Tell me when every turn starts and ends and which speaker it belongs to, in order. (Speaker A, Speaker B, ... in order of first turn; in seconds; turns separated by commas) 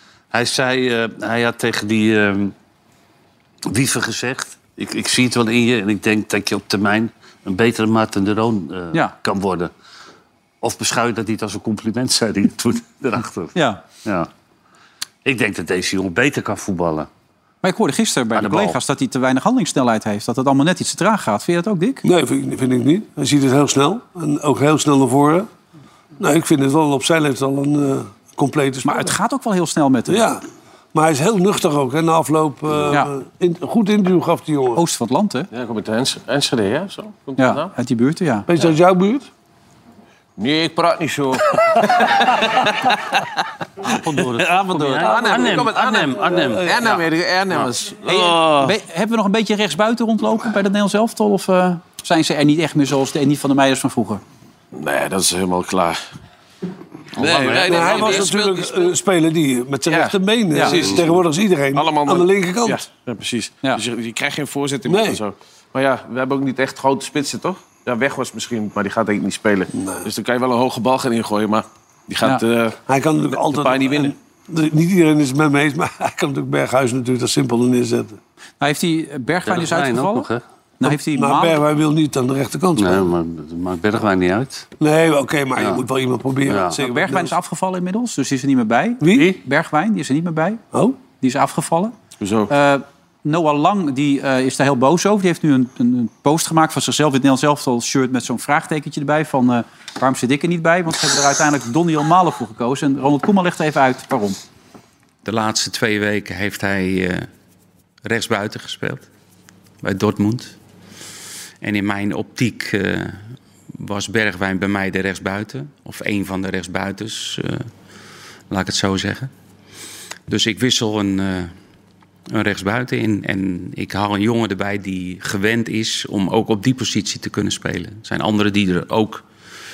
Speaker A: 0.3-2.5, Speaker A: 3.7-9.7, Speaker A: 10.6-13.5, Speaker B: 13.5-13.8, Speaker A: 15.2-17.1, Speaker B: 17.6-22.0, Speaker A: 18.3-18.8, Speaker C: 22.0-25.5, Speaker C: 26.2-29.1, Speaker B: 28.8-30.2, Speaker C: 30.1-30.4, Speaker C: 30.9-34.8, Speaker B: 34.8-35.5, Speaker D: 35.5-37.7, Speaker B: 37.4-38.5, Speaker C: 38.5-39.3, Speaker D: 40.4-42.7, Speaker A: 43.9-47.7, Speaker D: 44.2-48.8, Speaker B: 48.0-54.2, Speaker D: 54.7-56.0, Speaker D: 57.1-58.9, Speaker A: 57.2-58.3, Speaker C: 57.6-62.8, Speaker D: 59.9-61.2, Speaker D: 61.7-62.3, Speaker D: 62.9-72.8, Speaker C: 64.8-65.2, Speaker C: 69.7-70.1, Speaker C: 72.9-78.2, Speaker D: 73.3-74.1, Speaker B: 78.6-80.3, Speaker A: 79.5-80.4, Speaker B: 80.8-81.6, Speaker C: 80.8-83.0, Speaker A: 82.8-84.7, Speaker C: 84.8-87.3, Speaker A: 85.6-85.8, Speaker A: 86.5-86.8, Speaker B: 86.8-90.6, Speaker C: 89.0-89.3, Speaker B: 91.2-91.9, Speaker D: 92.2-92.5, Speaker B: 92.5-104.4, Speaker E: 105.2-107.3, Speaker E: 108.0-109.0, Speaker E: 109.8-110.5, Speaker E: 111.6-117.7, Speaker E: 118.5-119.3, Speaker E: 120.3-121.5, Speaker E: 122.3-129.2